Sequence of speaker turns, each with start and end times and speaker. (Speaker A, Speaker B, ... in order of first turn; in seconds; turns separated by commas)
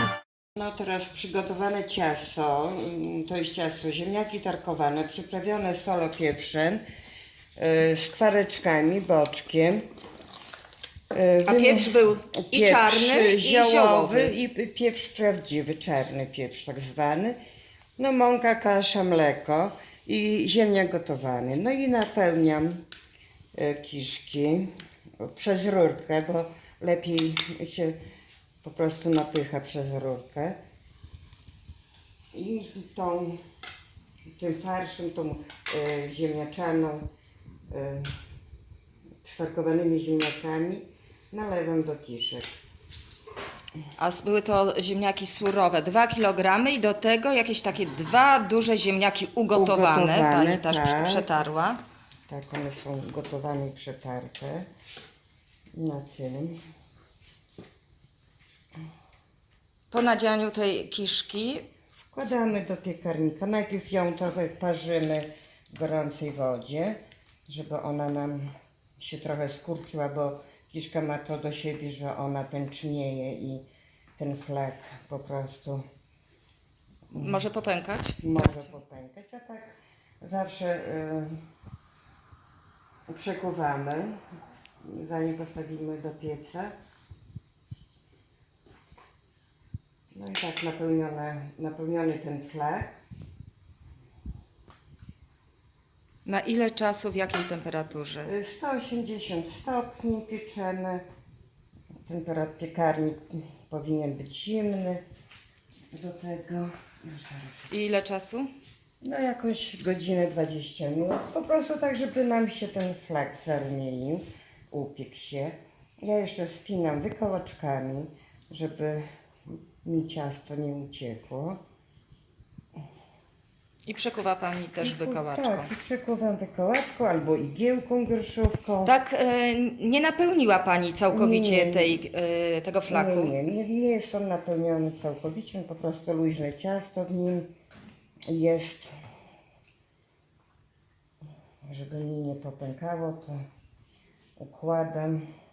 Speaker A: 0.6-6.8, Speaker A: 7.6-9.8, Speaker A: 11.1-17.4, Speaker B: 11.5-14.3, Speaker A: 18.0-22.8, Speaker A: 23.5-28.0, Speaker A: 28.6-30.6, Speaker A: 32.3-33.4, Speaker A: 34.3-37.1, Speaker A: 37.7-38.1, Speaker A: 39.2-42.5, Speaker B: 44.0-51.8, Speaker A: 49.5-51.3, Speaker A: 52.3-54.7, Speaker A: 55.8-56.6, Speaker B: 59.9-61.7, Speaker A: 62.1-73.6, Speaker A: 74.2-75.8, Speaker B: 77.1-78.7, Speaker A: 77.1-77.4, Speaker A: 78.2-81.4, Speaker A: 83.1-84.2, Speaker A: 84.8-86.7, Speaker A: 90.1-92.9, Speaker B: 96.2-98.3, Speaker A: 98.2-101.0, Speaker A: 102.0-105.0, Speaker A: 105.9-107.7, Speaker B: 107.7-108.5, Speaker A: 109.0-121.6, Speaker B: 123.8-125.7, Speaker A: 124.8-129.0, Speaker B: 128.8-133.4, Speaker A: 131.1-132.0, Speaker A: 132.9-137.5, Speaker A: 138.3-138.9, Speaker A: 141.6-143.4, Speaker A: 144.4-145.2